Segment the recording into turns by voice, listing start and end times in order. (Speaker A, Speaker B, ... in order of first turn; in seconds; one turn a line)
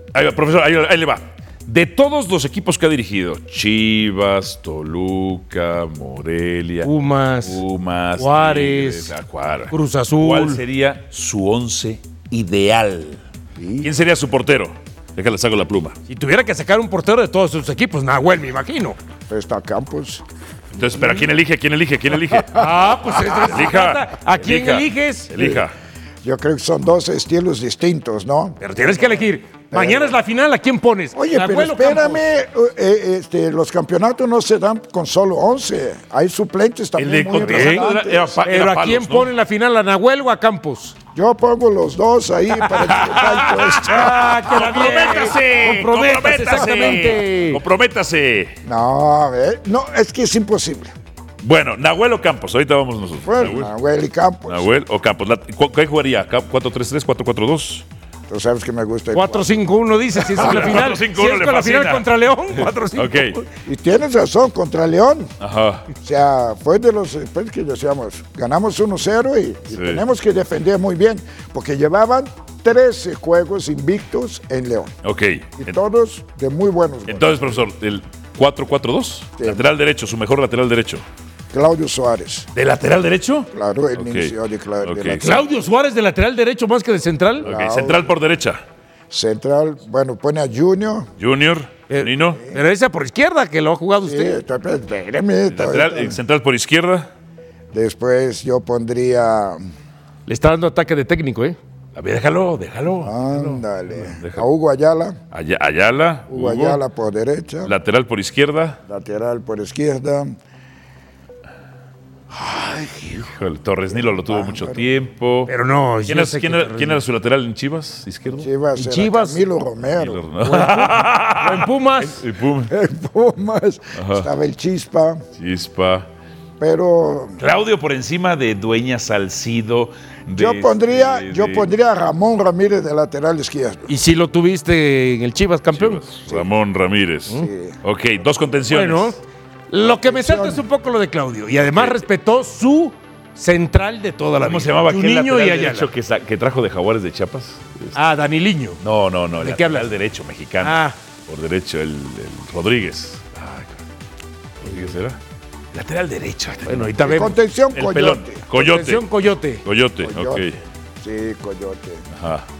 Speaker A: 0.1-6.9
Speaker B: 6.8-7.6
Speaker A: 7.4-13.2
Speaker B: 8.2-9.1
Speaker B: 9.7-10.6
Speaker C: 13.6-13.9
Speaker A: 13.8-15.9
Speaker B: 16.1-19.0
Speaker C: 19.3-20.2
Speaker A: 20.7-25.7
Speaker B: 22.5-25.3
Speaker C: 25.4-25.6
Speaker C: 26.2-28.6
Speaker B: 28.6-32.3
Speaker C: 29.7-30.2
Speaker C: 31.1-38.4
Speaker A: 37.0-39.3
Speaker B: 37.5-37.9
Speaker B: 38.4-40.9
Speaker C: 41.1-44.5
Speaker A: 42.6-48.5
Speaker B: 43.8-47.6
Speaker C: 46.5-47.2
Speaker C: 48.6-50.9
Speaker A: 51.4-53.7
Speaker C: 53.2-54.7
Speaker A: 54.5-57.8
Speaker C: 58.3-59.5
Speaker B: 59.1-63.4
Speaker A: 60.2-63.4
Speaker C: 60.3-60.8
Speaker C: 63.6-65.3
Speaker A: 65.4-65.9
Speaker C: 66.0-74.9
Speaker A: 69.7-70.0
Speaker A: 75.0-75.8
Speaker C: 75.6-77.6
Speaker A: 77.1-81.0
Speaker C: 79.4-79.7
Speaker C: 81.5-82.5
Speaker A: 82.5-85.2
Speaker C: 83.5-85.6
Speaker B: 85.2-87.5
Speaker C: 87.4-88.1
Speaker A: 87.4-88.6
Speaker C: 89.1-91.1
Speaker A: 91.2-92.4
Speaker B: 91.9-94.4
Speaker C: 92.3-92.6
Speaker C: 94.0-96.2
Speaker A: 95.5-97.1
Speaker C: 97.7-99.6
Speaker B: 100.3-101.6
Speaker A: 101.9-104.5
Speaker C: 103.0-105.2
Speaker A: 105.3-106.8
Speaker C: 106.3-107.7
Speaker A: 107.6-108.8
Speaker C: 108.9-110.3
Speaker C: 112.3-113.3
Speaker A: 113.2-115.5
Speaker C: 113.9-114.8
Speaker B: 115.5-117.0
Speaker A: 116.0-118.5
Speaker C: 118.3-120.2
Speaker B: 118.8-119.5
Speaker A: 119.9-122.7
Speaker B: 120.4-122.2
Speaker C: 122.7-125.2
Speaker A: 123.9-124.3
Speaker A: 125.4-126.1
Speaker C: 126.6-127.4
Speaker A: 127.4-131.7
Speaker C: 130.3-133.9
Speaker B: 133.9-136.0
Speaker A: 135.7-139.2
Speaker C: 137.3-137.8
Speaker B: 138.7-145.9
Speaker C: 139.8-140.6
Speaker A: 141.7-142.0
Speaker A: 144.4-148.0
Speaker B: 147.9-148.8
Speaker A: 148.8-153.8
Speaker B: 149.4-149.9
Speaker B: 150.6-151.0
Speaker A: 154.6-155.2
Speaker A: 155.7-157.1
Speaker B: 156.7-157.4
Speaker C: 157.0-158.4
Speaker A: 157.7-159.0
Speaker B: 158.5-159.6
Speaker A: 159.6-160.6
Speaker C: 160.0-162.0
Speaker A: 162.1-162.5